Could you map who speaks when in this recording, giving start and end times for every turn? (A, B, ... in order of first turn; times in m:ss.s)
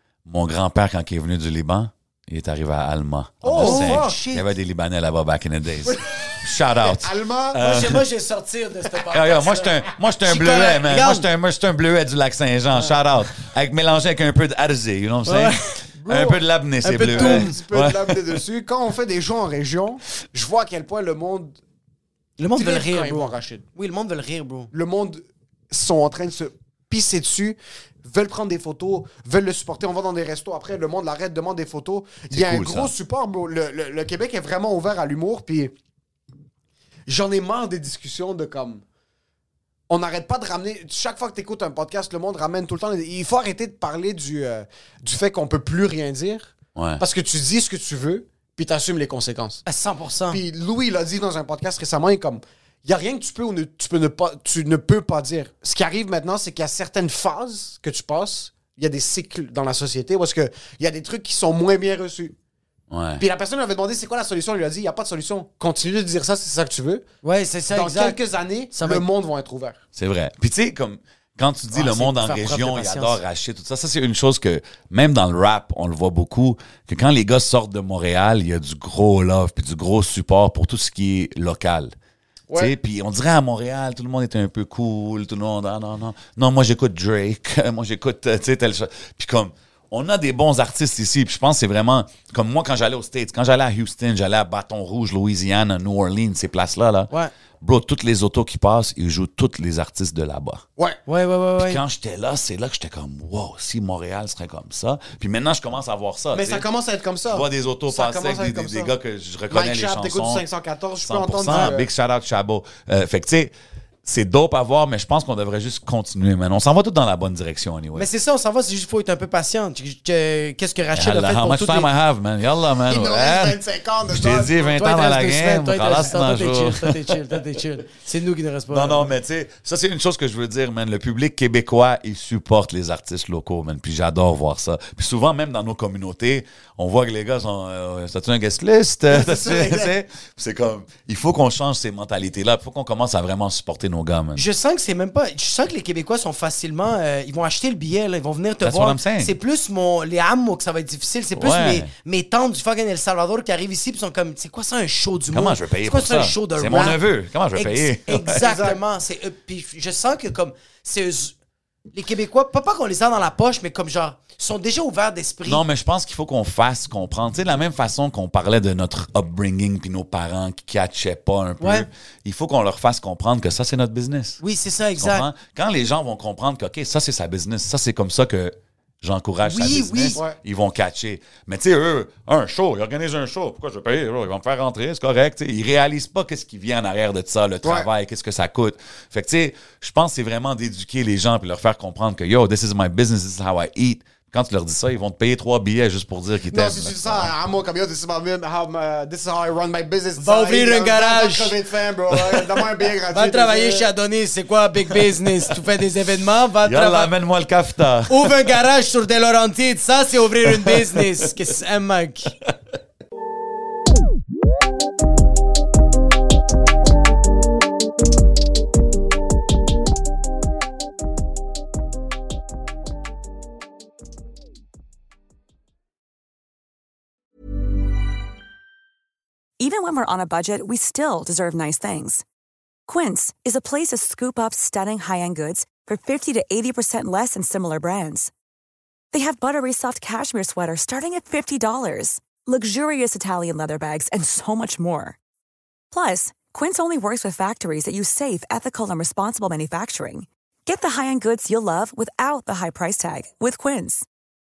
0:00.3-0:08.0 A
0:03.4-0:04.2 B
0:03.6-0:04.5 C
0:05.8-0:07.6 B
0:07.6-0:11.3 C
0:09.1-0:18.3 A
0:15.3-0:15.6 C
0:16.0-0:16.4 B
0:16.8-0:17.5 C
0:17.0-0:21.6 B
0:22.4-0:24.7 C
0:22.5-0:23.6 B
0:24.7-0:35.7 B
0:32.3-0:32.9 A
0:37.1-0:38.8 B
0:39.9-0:49.6 B
0:46.8-0:47.0 A
0:49.6-0:50.4 C
0:50.3-1:02.3 B
1:02.9-1:03.2 A
1:03.2-1:07.0 B
1:07.2-1:08.2 C
1:07.7-1:09.8 B
1:08.7-1:09.0 C
1:10.0-1:21.9 A
1:11.7-1:13.2 C
1:22.5-1:22.7 B
1:22.6-1:37.1 A
1:37.6-1:40.6 A
1:41.1-1:41.8 C
1:41.6-1:46.6 A
1:46.3-1:48.9 B
1:47.3-1:50.4 A
1:49.5-1:51.9 B
1:51.0-1:53.5 A
1:54.0-1:58.1 A
1:58.0-2:01.9 C
2:00.9-2:07.4 A
2:02.8-2:04.8 B
2:04.8-2:09.1 C
2:08.7-2:24.4 A
2:19.1-2:19.9 B
2:24.4-2:37.0 C
2:28.6-2:29.4 A
2:31.4-2:31.9 A
2:35.3-2:38.4 A
2:37.5-2:41.3 C
2:38.3-2:38.8 B
2:41.9-2:45.6 C
2:45.4-2:54.4 A
2:51.6-2:51.9 C
2:54.4-2:55.3 C
2:55.0-3:17.3 A
2:59.4-3:00.2 C
3:16.5-3:23.9 B
3:20.2-3:21.6 C
3:23.1-3:27.1 C
3:26.6-3:28.3 A
3:28.1-3:32.3 C
3:49.6-3:52.2 D
3:52.9-3:58.3 D
3:59.1-4:05.2 D
4:05.9-4:14.0 D